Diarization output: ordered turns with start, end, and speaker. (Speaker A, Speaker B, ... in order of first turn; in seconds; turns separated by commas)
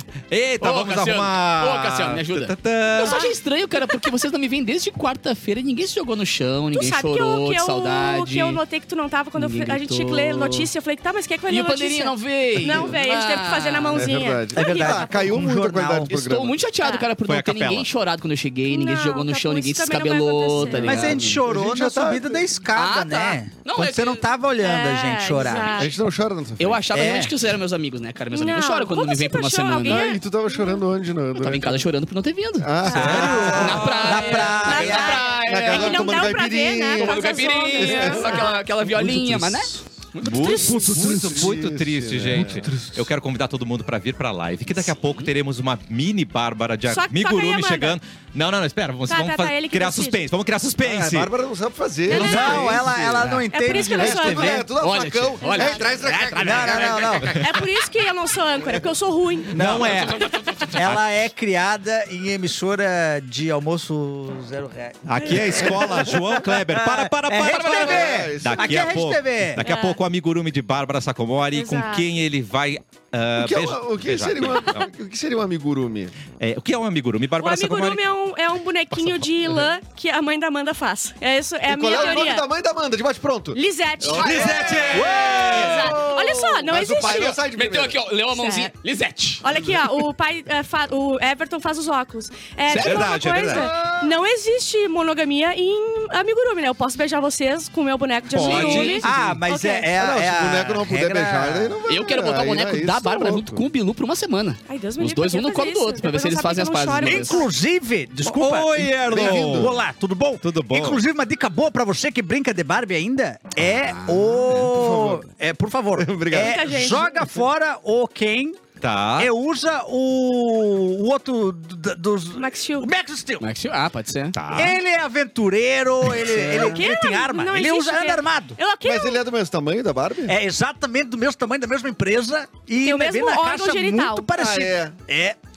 Speaker A: 0.3-3.3, Speaker B: 0.6-8.6, Speaker C: 2.9-3.3, Speaker C: 6.7-15.4, Speaker B: 9.3-10.7, Speaker B: 11.5-14.2, Speaker D: 13.9-16.6, Speaker E: 14.5-16.3, Speaker B: 16.1-21.4, Speaker C: 16.8-17.1, Speaker A: 17.2-17.9, Speaker C: 18.7-21.1, Speaker E: 20.7-25.8, Speaker D: 20.9-22.5, Speaker B: 22.7-24.2, Speaker C: 24.6-25.9, Speaker D: 25.8-26.9, Speaker B: 26.6-30.1, Speaker E: 26.9-27.3, Speaker C: 28.3-30.8, Speaker D: 29.9-31.9, Speaker B: 31.4-36.2, Speaker D: 32.6-38.5, Speaker A: 32.9-33.7, Speaker E: 32.9-35.2, Speaker C: 34.1-38.6, Speaker B: 37.0-41.0, Speaker E: 38.9-39.6, Speaker A: 40.2-51.3, Speaker C: 40.4-40.9, Speaker D: 40.6-42.7, Speaker E: 42.4-42.8, Speaker C: 46.9-48.0, Speaker C: 49.1-50.2, Speaker D: 50.8-57.6, Speaker C: 52.1-52.8, Speaker E: 52.1-54.6, Speaker A: 52.2-52.7, Speaker C: 53.5-54.7, Speaker B: 54.5-57.4, Speaker C: 55.4-56.0, Speaker E: 56.3-57.5, Speaker C: 57.4-59.6, Speaker E: 59.5-60.1, Speaker A: 59.5-60.2, Speaker B: 59.8-60.8, Speaker E: 60.7-69.6, Speaker A: 65.0-74.9, Speaker B: 67.5-68.2, Speaker D: 67.6-69.0, Speaker C: 69.6-70.0, Speaker C: 71.5-72.1, Speaker D: 73.4-76.1, Speaker A: 76.4-78.0, Speaker C: 77.4-82.4, Speaker A: 78.9-79.5, Speaker D: 81.7-86.1, Speaker C: 83.5-87.4, Speaker E: 84.2-86.2, Speaker A: 84.2-86.0, Speaker B: 84.2-85.5, Speaker D: 86.7-88.0, Speaker B: 87.5-89.4, Speaker C: 88.3-88.7, Speaker C: 89.4-99.9, Speaker B: 92.7-93.1, Speaker A: 92.7-93.7, Speaker E: 93.6-94.0, Speaker B: 93.6-93.9, Speaker A: 98.3-99.2, Speaker B: 98.4-99.1, Speaker E: 98.4-101.8, Speaker D: 99.9-103.6, Speaker B: 101.9-107.4, Speaker C: 104.7-107.5, Speaker E: 107.0-118.6, Speaker A: 108.2-109.8, Speaker D: 109.0-109.8, Speaker A: 110.4-111.0, Speaker B: 113.8-114.6, Speaker D: 114.7-115.2, Speaker D: 115.9-117.0, Speaker C: 116.3-117.3, Speaker A: 118.8-119.3, Speaker E: 119.2-123.4, Speaker C: 122.3-122.9, Speaker B: 123.4-124.4, Speaker A: 124.3-124.8, Speaker E: 124.5-128.6, Speaker D: 126.2-126.9, Speaker C: 126.6-129.2, Speaker D: 128.8-130.3, Speaker E: 130.2-135.4, Speaker C: 132.8-134.3, Speaker D: 134.3-135.0